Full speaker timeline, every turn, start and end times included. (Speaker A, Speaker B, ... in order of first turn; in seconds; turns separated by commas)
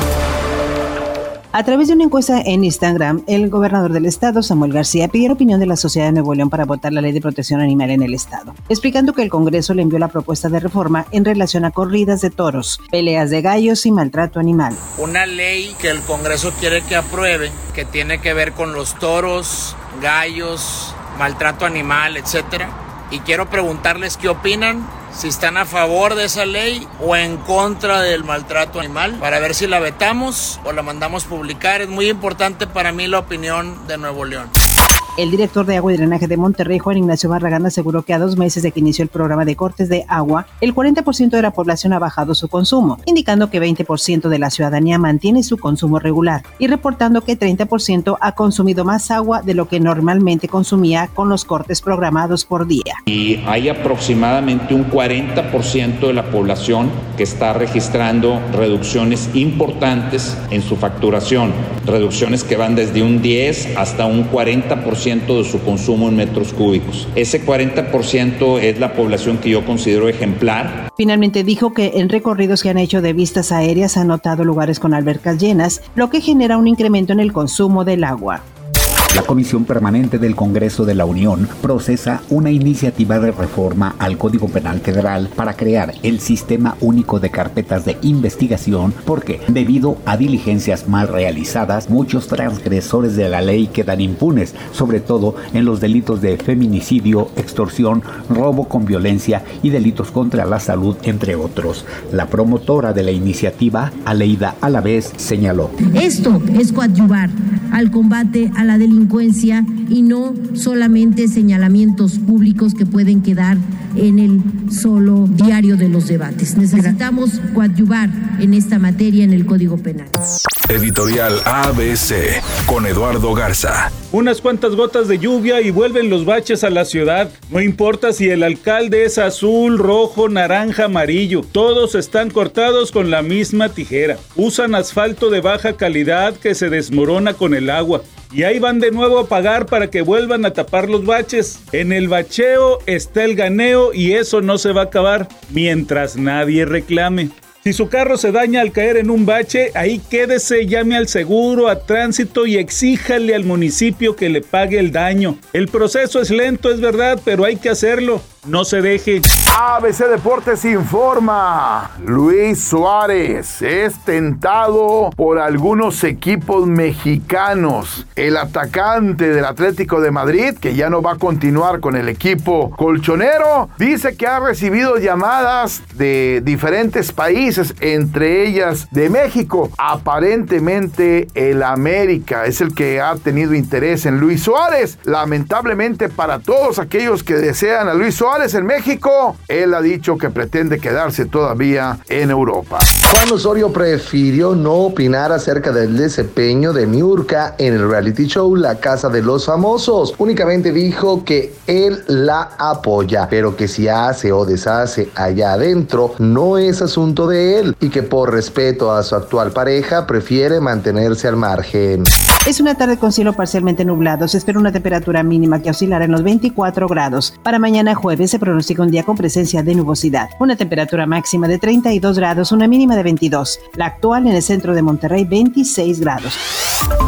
Speaker A: 1.5-14.8, Speaker B: 15.0-34.5, Speaker A: 35.2-53.0, Speaker C: 53.1-70.8, Speaker A: 71.0-78.4, Speaker D: 79.1-105.7, Speaker E: 105.9-120.4, Speaker F: 120.7-123.9, Speaker G: 124.0-159.2, Speaker H: 159.5-192.9, Speaker I: 193.1-212.1, Speaker A: 212.4-226.4